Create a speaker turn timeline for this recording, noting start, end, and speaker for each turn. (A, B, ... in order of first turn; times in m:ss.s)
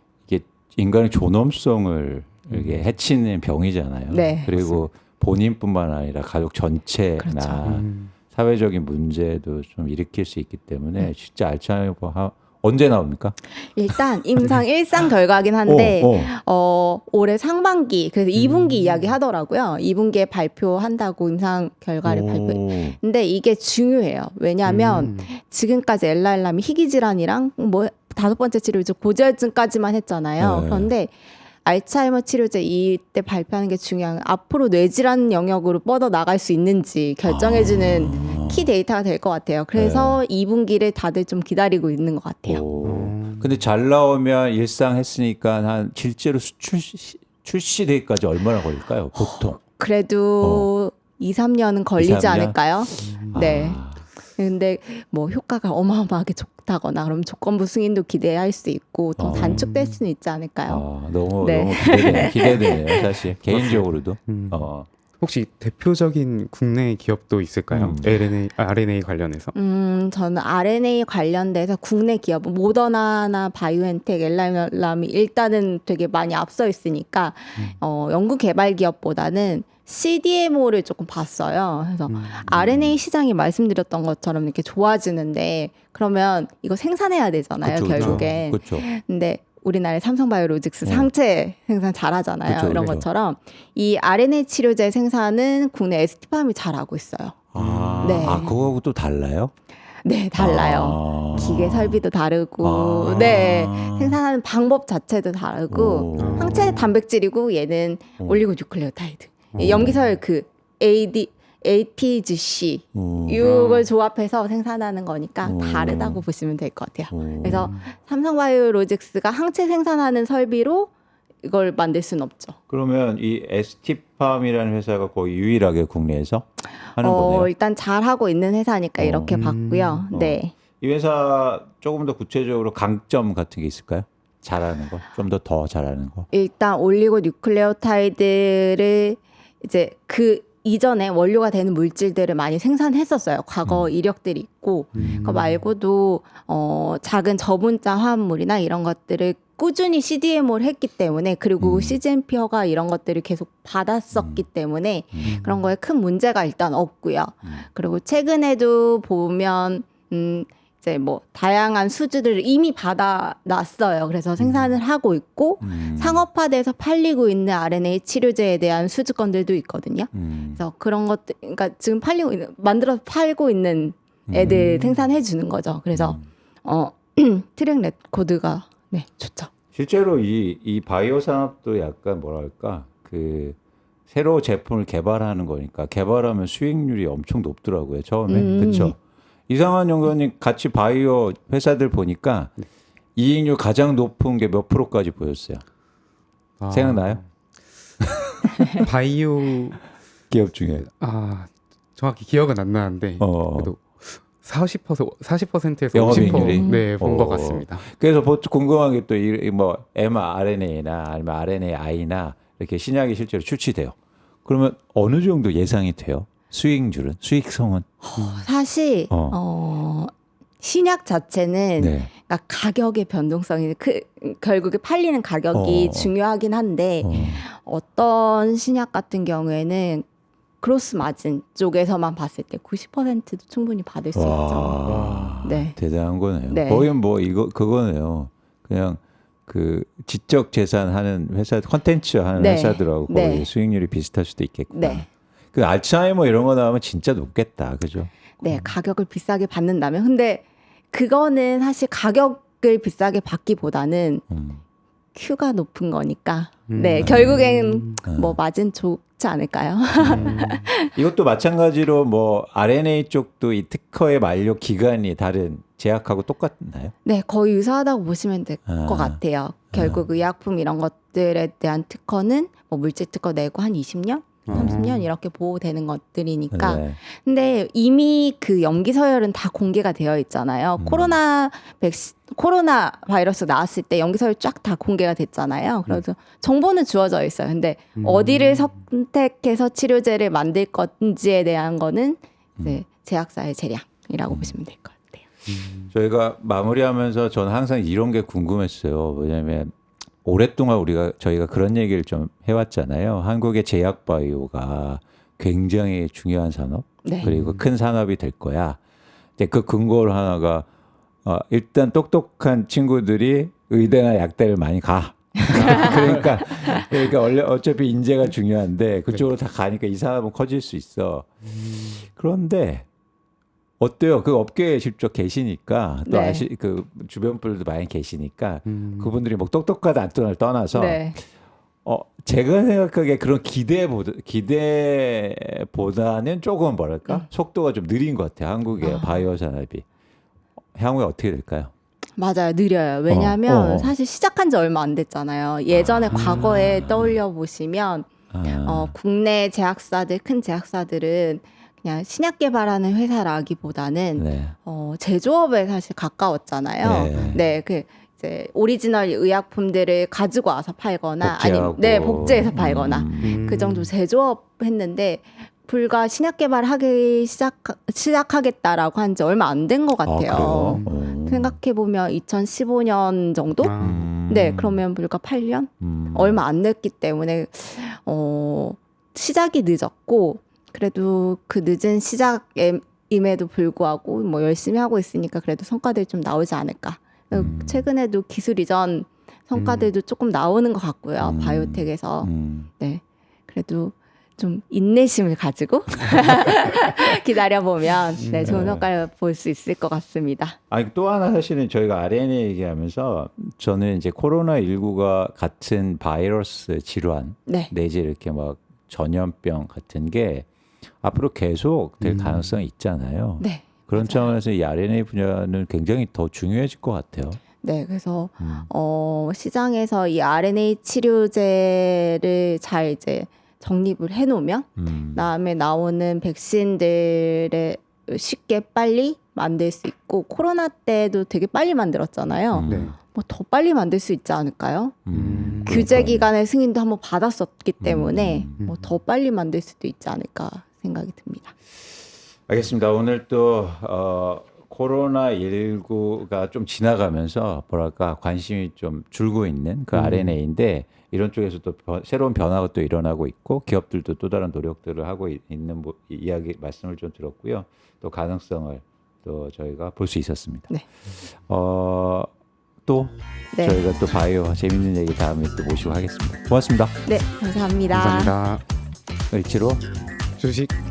0:00.2-0:13.4 A
0:02.5-0:02.8 B
0:04.1-0:04.7 C
0:07.2-0:07.6 C
0:07.6-0:08.1 B
0:13.5-0:42.6 C
0:13.9-0:14.5 A
0:15.6-0:16.3 A
0:18.3-0:19.2 B
0:22.0-0:23.0 A
0:24.6-0:25.3 B
0:30.4-0:30.9 A
0:37.2-0:38.7 A
0:39.7-0:40.2 A
0:42.4-0:49.6 A
0:42.8-0:43.5 B
0:49.1-0:53.8 C
0:50.4-0:50.7 A
0:52.0-0:54.0 A
0:53.0-0:53.4 B
0:54.3-1:00.8 C
0:59.2-0:59.7 A
0:59.3-0:59.9 B
1:00.7-1:04.9 A
1:01.4-1:03.0 C
1:03.4-1:09.5 B
1:07.7-1:08.2 A
1:09.5-1:37.4 C
1:22.1-1:22.4 B
1:22.5-1:23.0 A
1:27.6-1:28.9 A
1:27.9-1:28.3 B
1:30.8-1:31.1 A
1:32.4-1:33.1 A
1:37.5-1:39.5 A
1:37.6-1:38.7 B
1:38.0-1:38.5 C
1:40.0-2:02.6 C
1:40.4-1:42.0 A
1:42.6-1:44.2 A
1:45.7-1:46.8 A
1:46.2-1:46.9 B
1:49.5-1:50.0 B
1:49.6-1:50.0 A
1:52.9-1:53.5 A
1:53.4-1:53.9 B
1:55.4-1:56.2 A
1:57.1-1:57.7 A
2:02.7-2:07.5 A
2:06.8-2:10.5 C
2:09.0-2:09.4 A
2:09.3-2:10.1 B
2:10.1-2:16.3 A
2:16.3-2:59.5 C
2:23.6-2:23.9 A
2:24.9-2:25.3 A
2:24.9-2:25.6 B
2:31.6-2:32.0 A
2:34.1-2:34.4 A
2:35.1-2:35.4 A
2:35.2-2:35.7 B
2:44.4-2:44.8 B
2:45.6-2:46.2 A
2:50.1-2:50.6 A
2:54.3-2:54.6 A
2:54.4-2:55.0 B
2:55.9-2:56.3 A
2:59.7-3:03.6 A
3:04.1-3:09.0 A
3:08.3-3:09.0 C
3:09.5-3:12.5 A
3:13.2-3:15.6 A
3:16.6-3:17.3 B
3:16.7-3:17.2 A
3:18.6-3:18.8 C
3:18.8-3:19.9 B
3:20.3-3:20.9 A
3:21.0-3:27.9 B
3:23.2-3:23.7 A
3:25.9-3:37.9 A
3:26.1-3:26.9 C
3:38.0-3:50.0 C
3:38.2-3:38.5 B
3:39.1-3:39.4 A
3:41.8-3:42.1 A
3:45.5-3:46.1 A
3:47.0-3:47.4 A
3:50.6-3:54.8 C
3:54.1-4:08.7 A
3:54.8-3:55.4 B
3:55.4-3:55.8 C
3:56.4-3:56.9 C
4:02.4-4:03.5 C
4:04.7-4:05.1 C
4:08.4-4:14.2 C
4:14.3-4:14.6 A
4:15.1-4:20.9 C
4:16.7-4:18.0 B
4:17.0-4:17.4 A
4:18.0-4:18.4 A
4:20.0-4:20.3 A
4:20.0-4:20.7 B
4:20.9-4:26.9 A
4:27.0-4:55.2 C
4:28.6-4:29.2 A
4:29.7-4:30.0 A
4:34.4-4:35.1 B
4:34.5-4:34.8 A
4:36.5-4:37.0 A
4:40.8-4:41.2 A
4:48.0-4:48.8 B
4:54.3-4:54.6 A
4:55.5-4:55.9 B
4:55.9-5:08.8 A
5:07.0-5:07.3 C
5:07.2-5:07.6 B
5:09.4-5:10.7 A
5:11.2-5:22.9 A
5:15.4-5:15.9 C
5:15.7-5:16.2 B
5:23.8-5:31.2 A
5:26.0-5:26.4 C
5:28.6-5:29.2 B
5:30.7-5:31.2 C
5:31.8-5:39.8 A
5:38.8-5:39.2 C
5:40.7-5:41.7 A
5:42.2-6:40.6 C
5:43.1-5:43.9 A
5:45.7-5:47.2 A
5:46.1-5:46.6 B
5:48.3-5:48.9 A
5:54.2-5:54.5 A
5:56.8-5:57.4 A
6:01.2-6:03.4 A
6:03.2-6:03.9 B
6:10.0-6:11.6 A
6:10.6-6:10.9 B
6:13.6-6:14.0 B
6:13.8-6:14.8 A
6:15.8-6:16.4 A
6:27.3-6:27.9 A
6:29.6-6:29.9 B
6:31.2-6:32.7 A
6:38.2-6:38.7 B
6:38.4-6:38.8 A
6:40.7-6:50.5 A
6:47.5-6:47.7 C
6:51.0-6:57.4 A
6:52.0-6:52.5 B
6:53.4-6:54.3 C
6:57.6-7:15.0 C
6:58.4-6:58.7 A
7:04.8-7:05.3 A
7:12.5-7:12.9 A
7:12.6-7:13.0 B
7:15.1-7:16.3 A
7:15.1-7:16.0 B
7:15.6-7:21.5 C
7:17.8-7:18.6 A
7:18.6-7:18.9 B
7:22.5-7:42.3 A
7:29.9-7:30.4 B
7:42.8-7:46.9 A
7:43.5-7:43.8 C
7:47.0-7:48.3 C
7:47.9-7:48.6 B
7:49.3-7:49.8 A
7:50.4-7:50.7 B